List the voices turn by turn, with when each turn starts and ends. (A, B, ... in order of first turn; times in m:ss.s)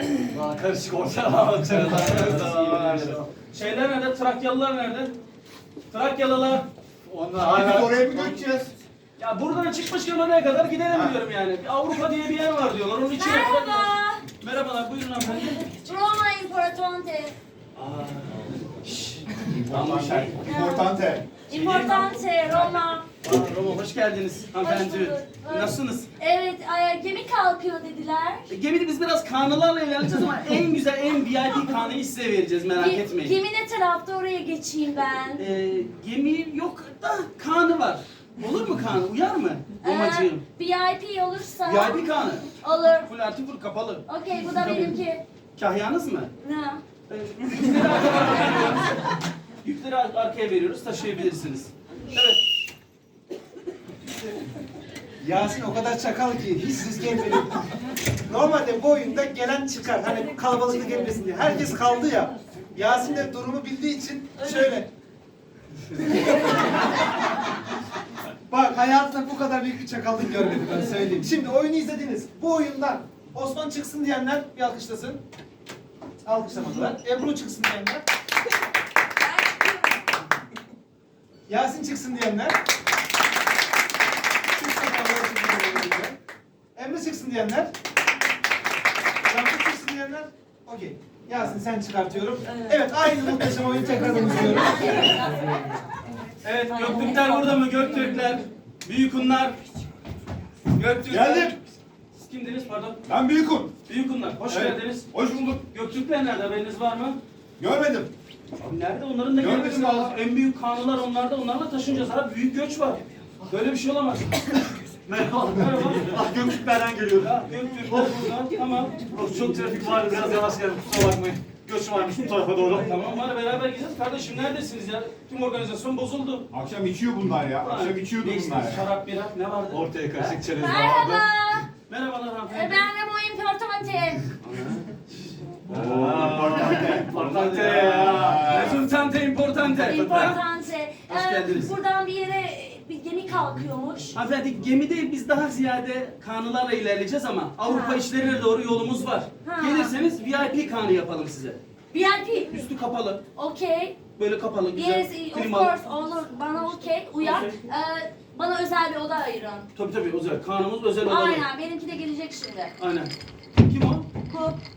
0:00.2-0:03.2 A
0:01.6-0:05.1 B
0:05.9-0:06.7 B
0:07.2-0:07.9 A
0:07.4-0:08.7 C
0:07.5-0:08.2 B
0:09.2-0:15.7 B
0:10.9-0:11.2 C
0:13.2-0:14.2 D
0:15.6-0:17.4 D
0:17.8-0:20.4 B
0:19.4-0:21.3 C
0:20.4-0:20.9 D
0:21.5-0:23.1 D
0:21.5-0:26.1 B
0:24.6-0:28.5 D
0:28.5-0:33.4 B
0:32.8-0:35.4 D
0:35.4-0:40.4 B
0:39.8-0:43.1 D
0:41.6-0:45.0 B
0:44.1-0:45.2 D
0:45.6-0:46.3 B
0:46.4-0:46.8 D
0:47.1-0:49.0 B
0:49.6-0:52.4 B
0:55.2-0:57.7 E
0:58.3-1:04.9 E
1:08.5-1:15.2 E
1:16.2-1:18.0 E
1:19.2-1:20.2 D
1:21.5-1:22.6 E
1:24.5-1:26.2 E
1:26.8-1:27.7 E
1:29.3-1:35.2 E
1:34.1-1:35.8 D
1:36.4-1:39.6 B
1:36.7-1:37.9 D
1:40.7-1:41.6 B
1:41.1-1:41.6 C
1:42.1-1:43.0 B
1:43.1-1:43.7 C
1:43.9-1:47.2 B
1:44.4-1:45.6 C
1:47.6-1:48.1 C
1:48.6-1:54.7 B
1:49.4-1:50.2 C
1:55.1-1:58.2 A
1:55.5-1:56.2 B
1:57.2-2:00.4 B
1:59.1-2:03.0 A
2:02.7-2:06.5 B
2:06.5-2:08.9 C
2:07.6-2:10.4 B
2:09.7-2:11.2 A
2:10.6-2:11.7 D
2:11.9-2:12.9 B
2:12.5-2:14.3 D
2:14.4-2:20.4 B
2:15.7-2:18.8 C
2:15.7-2:18.7 A
2:19.7-2:20.3 A
2:19.8-2:24.2 D
2:21.1-2:21.8 B
2:24.1-2:31.6 B
2:27.7-2:28.1 D
2:29.4-2:30.0 D
2:31.9-2:32.7 D
2:32.5-2:33.2 B
2:33.3-2:34.0 D
2:34.2-2:35.7 B
2:34.7-2:39.7 D
2:37.2-2:37.6 B
2:39.8-2:41.5 B
2:41.0-2:42.7 D
2:42.8-2:44.1 B
2:44.3-2:44.6 D